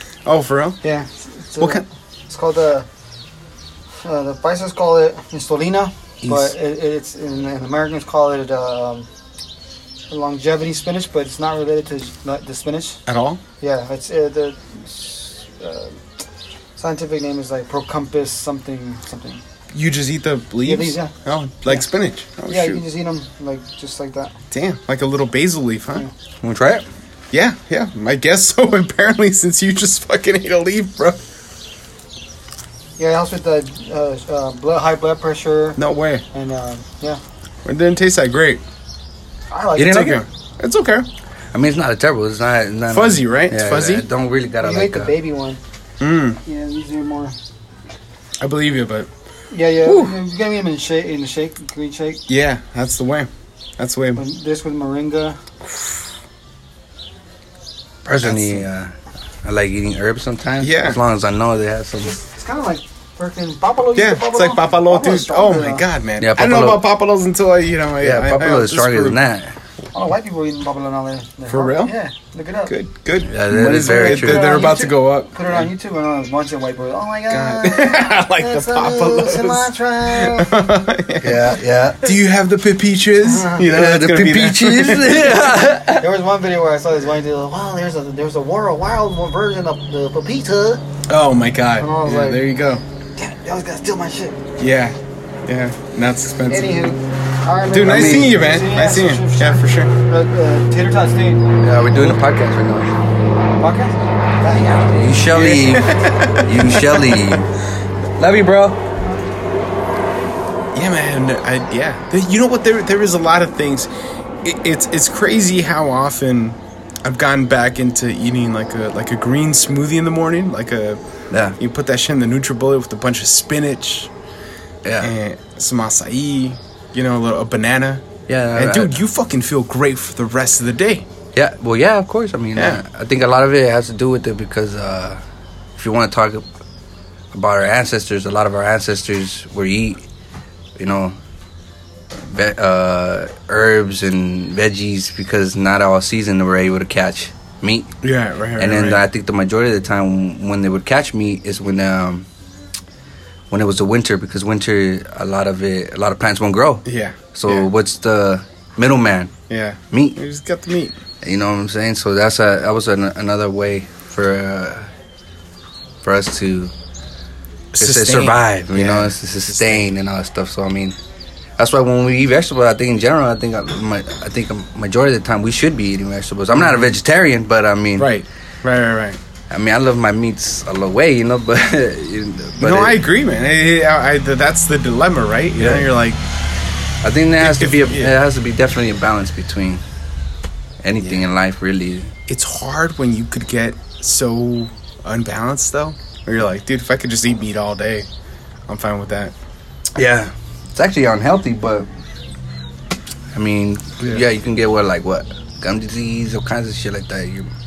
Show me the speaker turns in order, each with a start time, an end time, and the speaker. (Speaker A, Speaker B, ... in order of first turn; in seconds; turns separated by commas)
Speaker A: 0.2-0.8, Speaker B: 0.8-2.9, Speaker A: 1.6-1.8, Speaker B: 4.0-9.1, Speaker A: 6.2-6.5, Speaker B: 10.1-13.0, Speaker A: 13.1-13.4, Speaker B: 13.6-16.0, Speaker B: 16.8-19.4, Speaker A: 19.7-22.8, Speaker B: 20.6-21.1, Speaker B: 22.5-24.4, Speaker A: 24.5-26.1, Speaker C: 26.4-26.9, Speaker A: 27.3-31.2, Speaker B: 33.0-35.8, Speaker A: 35.8-36.2, Speaker B: 36.3-37.2, Speaker A: 37.6-38.6, Speaker B: 39.5-40.2, Speaker C: 39.8-40.2, Speaker A: 39.9-41.1, Speaker C: 41.5-45.1, Speaker A: 42.9-44.1, Speaker B: 44.6-45.6, Speaker A: 46.0-46.4, Speaker B: 46.4-47.4, Speaker A: 48.4-49.1, Speaker B: 49.5-52.2, Speaker A: 49.8-50.2, Speaker A: 52.3-54.2, Speaker B: 54.1-55.4, Speaker C: 58.0-62.1, Speaker A: 58.2-58.7, Speaker A: 60.6-61.0, Speaker B: 62.0-65.8, Speaker A: 64.0-69.2, Speaker C: 66.2-66.8, Speaker C: 68.0-69.6, Speaker B: 69.9-72.7, Speaker A: 71.5-71.9, Speaker A: 72.7-75.7, Speaker C: 73.2-74.7, Speaker B: 73.7-80.6, Speaker A: 77.3-85.4, Speaker C: 81.2-82.1, Speaker B: 83.2-83.7, Speaker C: 83.6-86.1, Speaker B: 86.0-90.8, Speaker A: 91.1-92.8, Speaker B: 91.8-92.5, Speaker B: 93.2-94.4, Speaker A: 94.6-96.7, Speaker B: 96.5-101.5, Speaker A: 97.7-99.9, Speaker C: 97.8-98.3, Speaker C: 101.6-103.0, Speaker B: 103.6-104.9, Speaker C: 104.8-107.5, Speaker A: 105.3-107.4, Speaker C: 108.2-108.8, Speaker A: 110.7-113.9, Speaker A: 114.4-121.0, Speaker C: 121.3-121.6, Speaker A: 121.6-124.1, Speaker C: 124.8-125.1, Speaker A: 125.0-131.1, Speaker C: 128.3-128.9, Speaker C: 131.3-135.2, Speaker A: 132.6-132.8, Speaker C: 135.8-136.4, Speaker C: 137.3-140.0, Speaker C: 140.8-141.2, Speaker C: 142.2-147.9, Speaker A: 148.0-149.0, Speaker C: 148.6-152.3, Speaker C: 153.5-159.3, Speaker A: 156.8-157.7, Speaker A: 159.5-161.0, Speaker C: 159.9-160.2, Speaker C: 161.2-164.9, Speaker C: 166.0-166.7, Speaker C: 167.7-171.0, Speaker A: 167.8-169.9, Speaker C: 171.6-178.1, Speaker A: 176.5-176.9, Speaker A: 178.0-179.2, Speaker C: 179.5-183.0, Speaker A: 182.6-186.2, Speaker C: 185.6-185.9, Speaker C: 187.0-189.8, Speaker A: 187.4-188.2, Speaker C: 190.8-192.1, Speaker A: 192.3-198.1, Speaker A: 198.7-199.3, Speaker C: 200.0-201.9, Speaker C: 203.3-207.5, Speaker A: 204.0-204.3